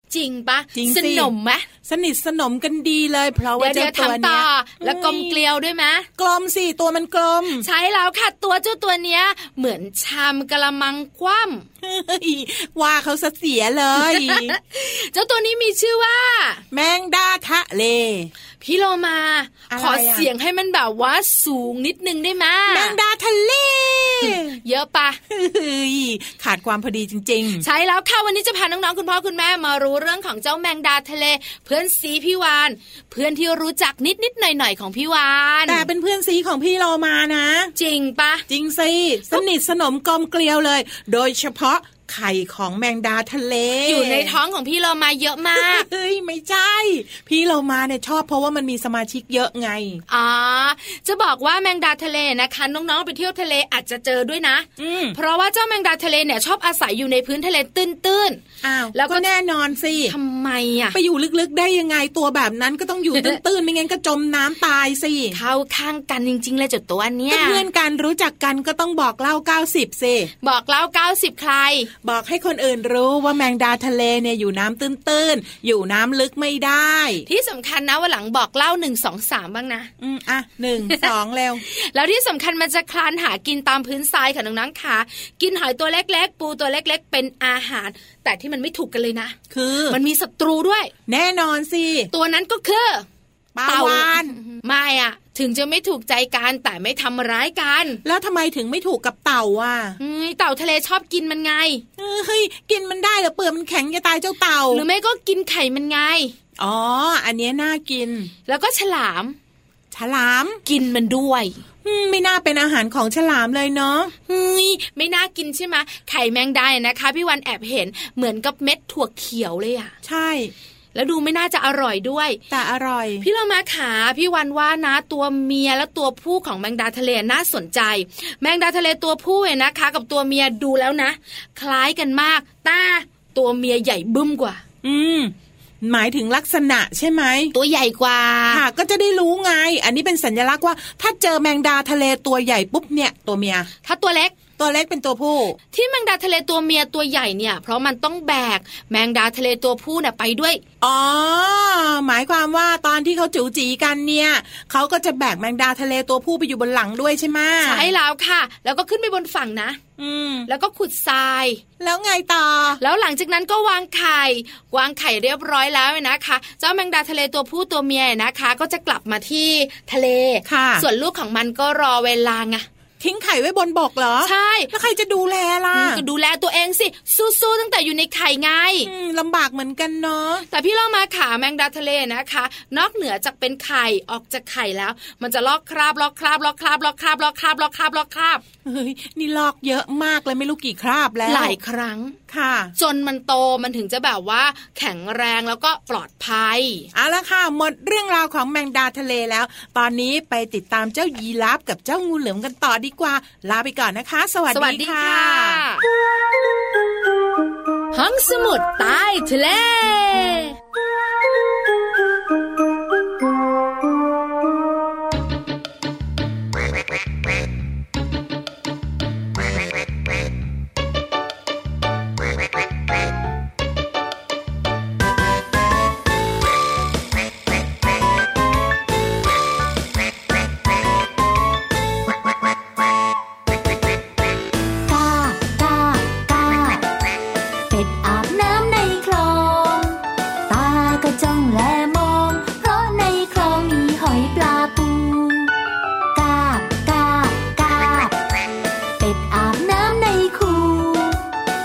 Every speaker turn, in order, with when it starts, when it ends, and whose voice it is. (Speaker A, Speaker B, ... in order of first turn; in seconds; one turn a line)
Speaker A: 0.1-1.7
Speaker B: 0.7-1.3
Speaker B: 1.8-5.4
Speaker A: 3.6-6.1
Speaker B: 6.2-7.7
Speaker A: 7.6-11.7
Speaker B: 11.8-14.5
Speaker A: 14.0-16.6
Speaker B: 16.7-18.3
Speaker A: 18.6-23.0
Speaker B: 19.7-20.3
Speaker B: 22.7-24.6
Speaker A: 24.2-25.2
Speaker B: 25.3-27.6
Speaker A: 27.6-35.9
Speaker B: 35.7-37.7
Speaker A: 37.8-38.5
Speaker B: 38.5-44.4
Speaker A: 43.9-45.9
Speaker B: 45.6-50.0
Speaker A: 50.1-58.4
Speaker B: 54.8-55.2
Speaker B: 58.6-60.1
Speaker A: 58.9-59.2
Speaker A: 60.1-61.0
Speaker B: 60.9-65.4
Speaker A: 65.3-67.7
Speaker B: 67.3-70.3
Speaker A: 70.4-71.9
Speaker B: 72.0-77.3
Speaker A: 77.3-79.9
Speaker B: 80.0-81.6
Speaker A: 81.7-89.4
Speaker B: 89.5-90.0
Speaker A: 89.9-90.9
Speaker B: 91.1-92.1
Speaker A: 92.1-93.1
Speaker B: 93.5-94.3
Speaker A: 93.7-98.0
Speaker B: 98.0-100.0
Speaker A: 100.0-101.8
Speaker B: 102.0-104.8
Speaker A: 104.7-106.3
Speaker B: 106.6-108.3
Speaker A: 108.5-109.4
Speaker B: 109.9-110.6
Speaker A: 110.7-111.6
Speaker B: 111.8-114.1
Speaker A: 114.3-119.9
Speaker B: 120.0-120.5
Speaker A: 121.0-122.4
Speaker B: 122.5-123.3
Speaker A: 123.2-134.6
Speaker B: 134.8-137.5
Speaker A: 137.5-138.6
Speaker B: 138.5-143.7
Speaker A: 143.8-144.4
Speaker B: 144.6-145.6
Speaker A: 145.7-150.6
Speaker B: 150.8-157.9
Speaker A: 157.6-159.8
Speaker B: 160.0-160.5
Speaker A: 160.5-161.6
Speaker B: 161.8-162.8
Speaker A: 162.8-172.7
Speaker B: 170.4-170.8
Speaker B: 173.0-176.0
Speaker A: 174.2-174.7
Speaker A: 175.7-178.9
Speaker B: 178.8-180.4
Speaker A: 180.5-188.4
Speaker B: 188.7-191.6
Speaker A: 191.2-192.2
Speaker B: 192.3-192.7
Speaker A: 192.8-196.9
Speaker B: 196.9-205.6
Speaker A: 204.5-205.8
Speaker A: 207.9-210.6
Speaker C: 234.9-236.9
Speaker C: 237.7-245.5
Speaker C: 246.1-248.2
Speaker C: 249.0-251.3